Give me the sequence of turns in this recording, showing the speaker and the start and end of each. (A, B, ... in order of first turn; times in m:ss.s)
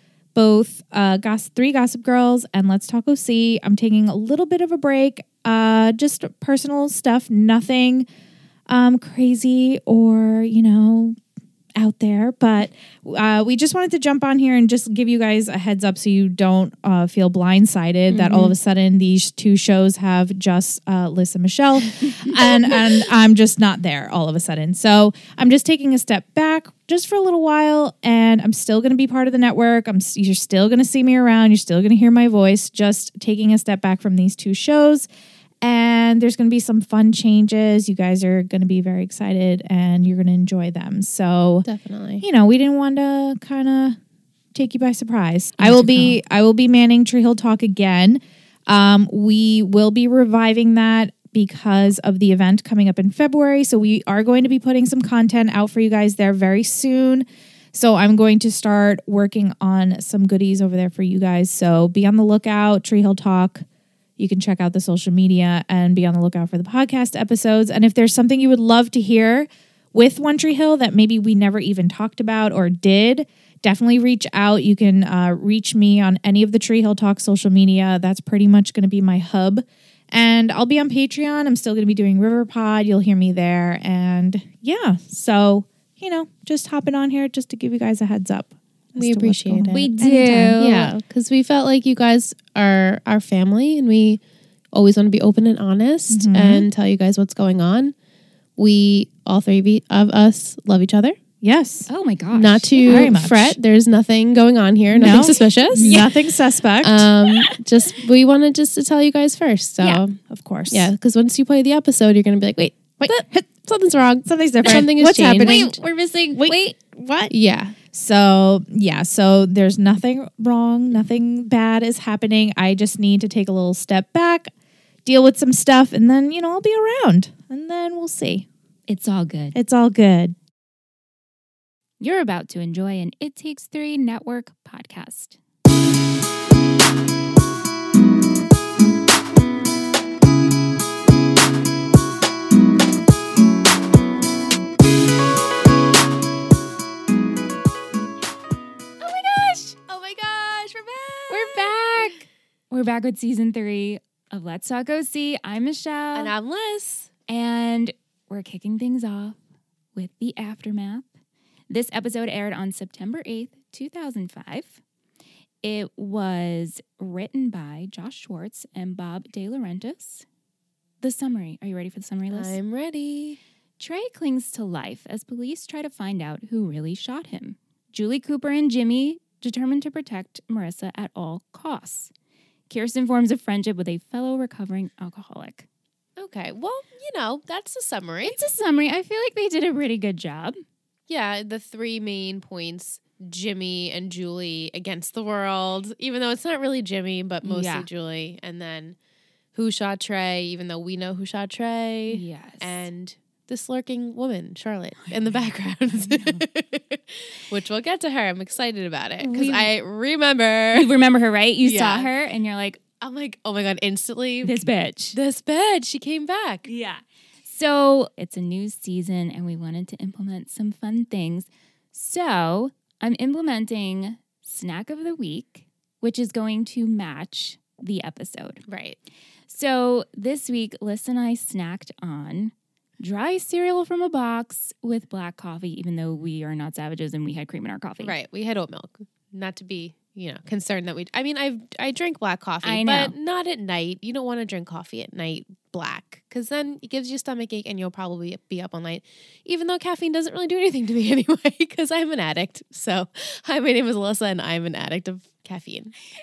0:00.3-0:08.0 A
0:08.7-0:11.2 A
0:11.8-0:35.1 A
0:18.1-0:18.6 B
0:35.6-0:41.7 A
0:41.6-0:42.2 B
0:42.2-0:44.0 A
0:44.5-1:03.6 A
0:45.6-0:46.2 C
1:04.2-1:30.6 A
1:29.0-1:29.9 B
1:29.7-1:30.9 C
1:30.6-1:34.2 B
1:34.7-1:37.9 B
1:36.1-1:36.7 A
1:38.6-1:41.2 B
1:41.4-1:41.9 A
1:41.9-1:43.2 C
1:42.3-1:55.8 B
1:42.8-1:43.6 A
1:44.9-1:47.5 A
1:45.0-1:46.1 C
1:50.2-1:50.9 A
1:53.0-1:53.4 A
1:54.2-1:57.3 A
1:55.4-1:56.8 C
1:57.3-1:57.8 B
1:57.9-2:04.5 A
2:05.0-2:08.5 A
2:08.9-2:09.6 C
2:09.6-2:10.4 A
2:12.0-2:15.4 C
2:29.0-2:29.7 C
2:29.7-2:32.2 B
2:31.3-2:36.3 C
2:36.2-2:37.1 B
2:37.3-2:39.4 C
2:40.0-2:41.1 C
2:41.7-2:44.8 C
2:45.6-2:50.2 C
2:51.0-2:52.6 C
2:52.3-2:53.4 B
2:53.8-3:02.1 C
3:02.7-3:05.7 C
3:06.2-3:08.4 B
3:08.2-3:10.6 C
3:11.1-3:19.0 B
3:17.4-3:17.9 C
3:19.5-3:30.9 B
3:22.1-3:22.9 C
3:25.0-3:26.4 C
3:29.2-3:29.7 C
3:30.7-3:32.8 C
3:31.6-3:32.1 B
3:33.0-3:34.6 B
3:34.4-3:35.2 C
3:35.1-3:36.7 B
3:36.7-3:48.6 C
3:48.7-3:49.0 B
3:49.5-3:58.1 C
3:58.0-4:15.9 B
4:02.6-4:03.1 C